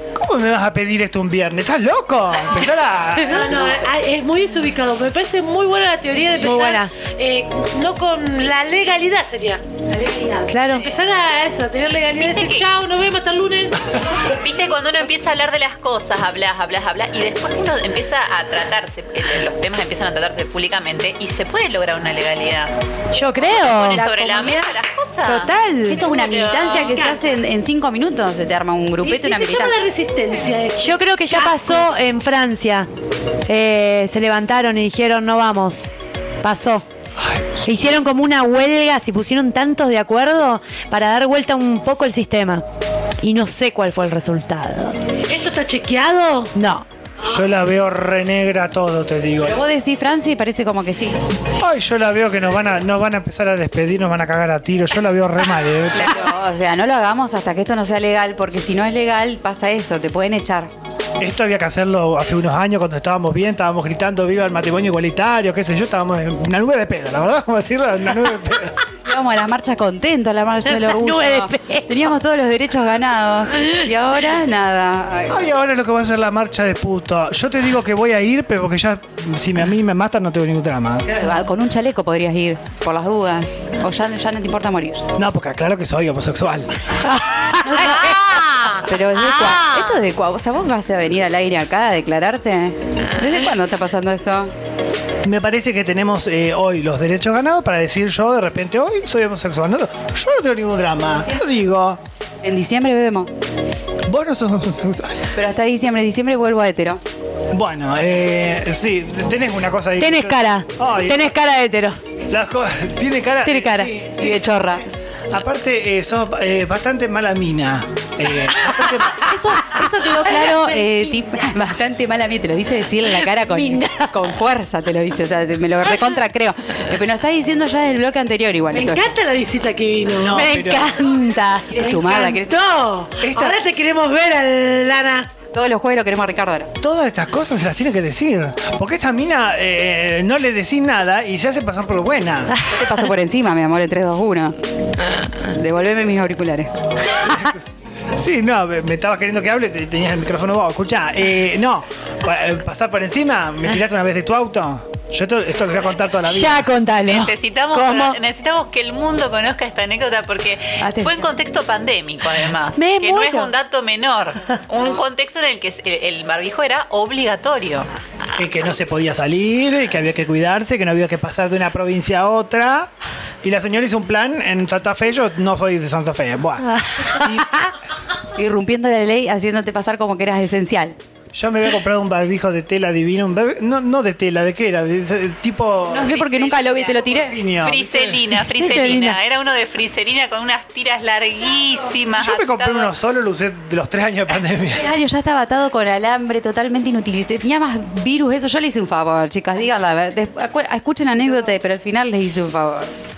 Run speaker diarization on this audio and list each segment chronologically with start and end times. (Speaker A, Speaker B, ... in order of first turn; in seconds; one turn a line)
Speaker A: 0.1-3.8
Speaker B: 3.2-9.6
Speaker C: 6.3-6.9
Speaker D: 9.9-10.5
Speaker C: 10.5-10.8
Speaker E: 10.7-11.0
Speaker B: 10.7-13.9
Speaker E: 12.2-12.7
Speaker E: 14.2-22.7
Speaker C: 23.1-24.1
Speaker E: 23.4-26.9
Speaker D: 23.9-24.7
Speaker C: 25.2-26.1
Speaker D: 25.9-29.8
Speaker B: 26.6-27.2
Speaker B: 29.0-31.9
Speaker C: 30.8-32.9
Speaker C: 33.4-35.9
Speaker C: 36.4-36.8
Speaker A: 37.1-37.8
Speaker C: 37.6-42.6
Speaker C: 43.2-45.0
Speaker B: 45.2-46.5
Speaker C: 46.5-46.9
Speaker A: 47.2-49.6
Speaker D: 49.4-51.2
Speaker A: 51.6-56.1
Speaker D: 55.9-60.7
Speaker A: 61.2-68.8
Speaker D: 69.0-75.4
Speaker C: 70.6-72.1
Speaker A: 75.3-81.1
Speaker D: 81.1-85.1
Speaker A: 85.2-86.7
Speaker C: 87.1-90.0
Speaker D: 87.6-94.5
Speaker A: 95.2-102.0
Speaker D: 102.4-103.3
Speaker A: 104.0-105.3
Speaker D: 105.3-107.0
Speaker A: 107.5-111.3
Speaker C: 110.0-112.0
Speaker A: 112.3-119.3
Speaker C: 113.4-113.9
Speaker D: 114.2-114.8
Speaker D: 119.2-129.1
Speaker C: 123.0-124.2
Speaker B: 128.7-130.4
Speaker A: 130.2-130.9
Speaker C: 130.3-132.4
Speaker D: 131.7-132.6
Speaker B: 132.1-135.3
Speaker A: 133.2-133.6
Speaker D: 135.5-136.7
Speaker A: 136.8-142.5
Speaker D: 142.7-144.6
Speaker D: 145.4-146.7
Speaker A: 147.2-156.7
Speaker C: 156.2-158.2
Speaker E: 157.0-167.9
Speaker D: 160.8-161.3
Speaker C: 162.8-163.5
Speaker A: 168.3-172.9
Speaker A: 173.4-177.6
Speaker D: 178.3-180.9
Speaker A: 181.3-186.2
Speaker D: 185.9-187.4
Speaker E: 185.9-192.9
Speaker A: 187.2-188.2
Speaker C: 188.6-189.2
Speaker A: 192.2-194.8
Speaker D: 194.7-202.9